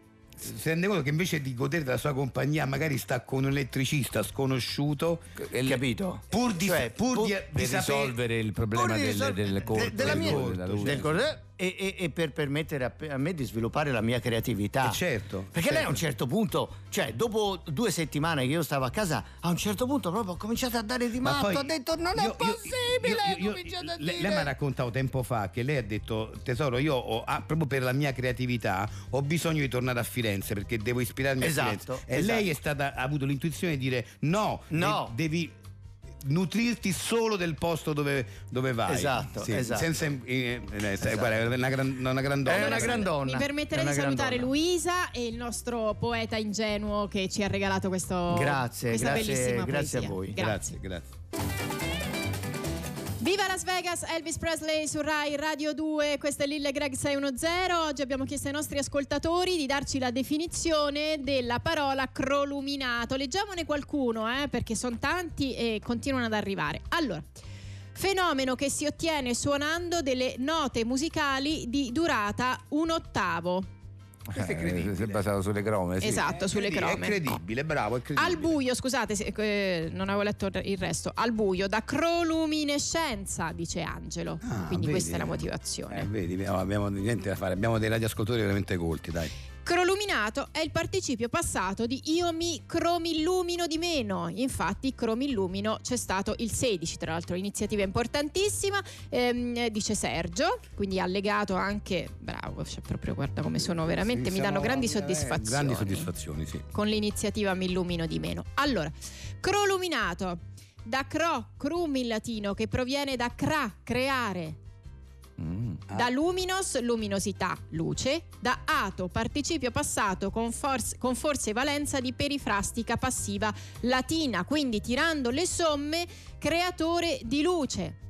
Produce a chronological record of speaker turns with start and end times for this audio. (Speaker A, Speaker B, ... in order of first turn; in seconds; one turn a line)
Speaker A: 0.4-5.2
Speaker B: 5.4-5.8
Speaker C: 5.6-7.4
Speaker A: 6.3-8.2
Speaker B: 7.5-11.2
Speaker C: 8.7-15.0
Speaker A: 9.7-11.2
Speaker A: 14.8-16.0
Speaker C: 15.5-24.5
Speaker A: 21.2-35.5
Speaker C: 31.4-32.5
Speaker C: 34.7-35.1
Speaker A: 36.2-43.1
Speaker C: 38.9-39.9
Speaker C: 41.0-41.4
Speaker C: 42.4-44.5
Speaker D: 42.5-50.8
Speaker C: 48.3-50.4
Speaker A: 50.4-51.1
Speaker D: 53.2-67.2
Speaker D: 68.0-73.7
Speaker B: 74.3-76.3
Speaker A: 74.3-75.2
Speaker D: 76.0-77.4
Speaker A: 76.3-78.6
Speaker D: 78.2-86.1
Speaker A: 84.4-89.3
Speaker D: 89.7-106.1
Speaker A: 103.7-106.6
Speaker D: 106.7-114.6
Speaker B: 115.4-115.8
Speaker D: 115.9-128.0